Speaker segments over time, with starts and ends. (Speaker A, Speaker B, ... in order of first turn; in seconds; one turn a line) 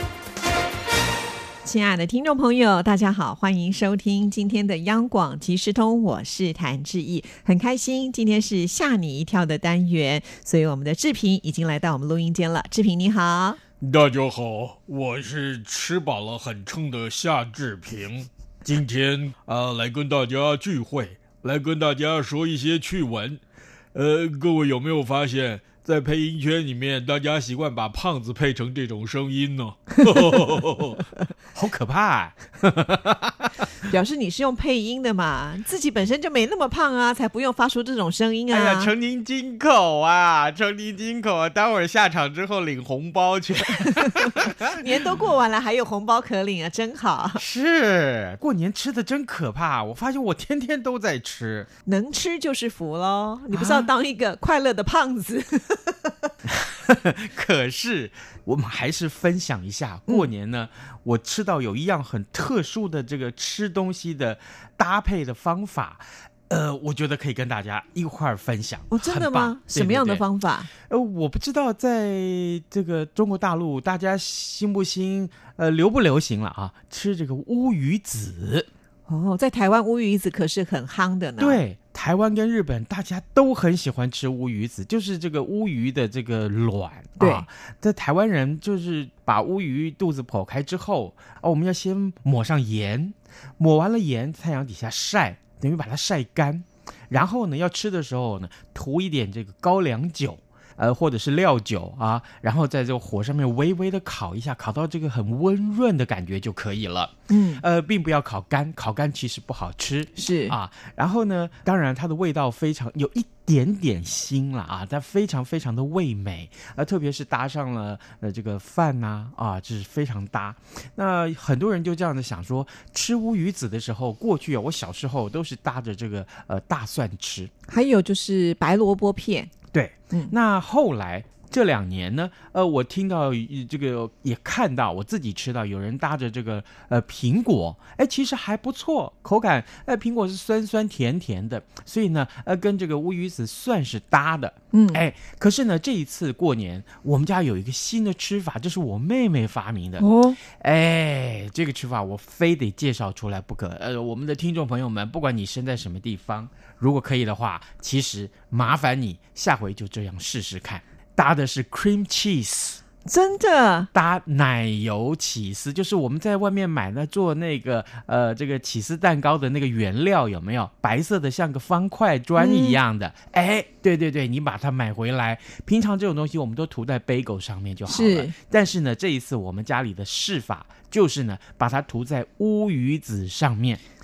Speaker A: 1.6-13.6
Speaker B: 13.8-16.1
Speaker C: 13.9-18.2
Speaker B: 17.9-23.3
Speaker C: 19.3-23.4
Speaker C: 23.9-30.4
Speaker B: 25.2-26.1
Speaker B: 28.2-33.5
Speaker A: 33.8-38.9
Speaker B: 38.5-45.2
Speaker A: 43.9-47.4
Speaker B: 47.4-51.7
Speaker A: 51.9-56.3
Speaker B: 53.5-53.9
Speaker B: 56.5-70.2
Speaker A: 68.9-70.7
Speaker B: 70.8-78.7
Speaker A: 79.1-81.6
Speaker B: 81.4-127.5
Speaker A: 87.2-87.5
Speaker A: 107.3-107.6
Speaker A: 110.2-110.6
Speaker A: 127.7-129.5
Speaker B: 129.7-162.8
Speaker A: 144.7-145.0
Speaker A: 150.0-150.4
Speaker A: 163.1-163.9
Speaker B: 163.9-183.8
Speaker A: 172.4-172.8
Speaker A: 177.8-178.3